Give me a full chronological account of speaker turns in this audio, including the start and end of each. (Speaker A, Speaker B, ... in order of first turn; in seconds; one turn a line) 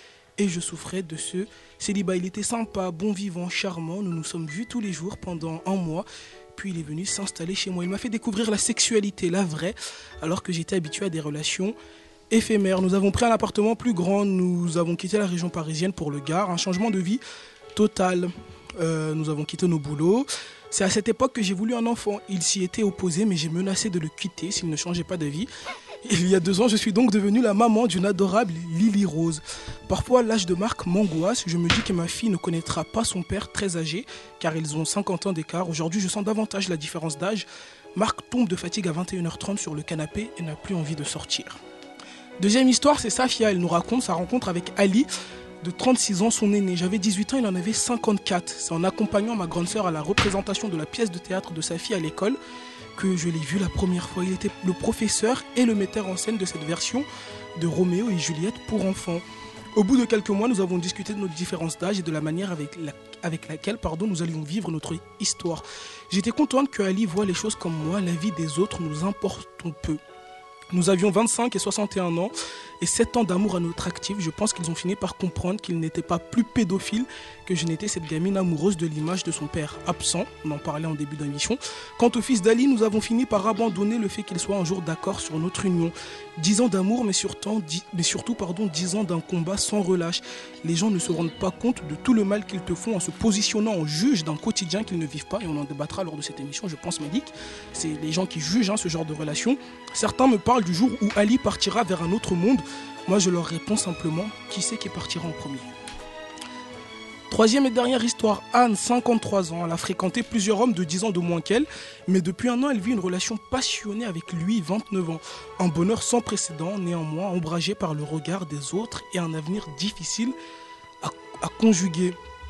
Speaker A: 0.4-11.8
Speaker A: 12.3-17.2
Speaker A: 17.7-25.5
Speaker A: 26.0-41.6
Speaker A: 42.4-45.1
Speaker A: 45.6-52.4
Speaker A: 52.9-59.2
Speaker A: 59.8-70.0
Speaker A: 70.7-105.7
Speaker A: 107.3-120.3
Speaker A: 121.0-122.2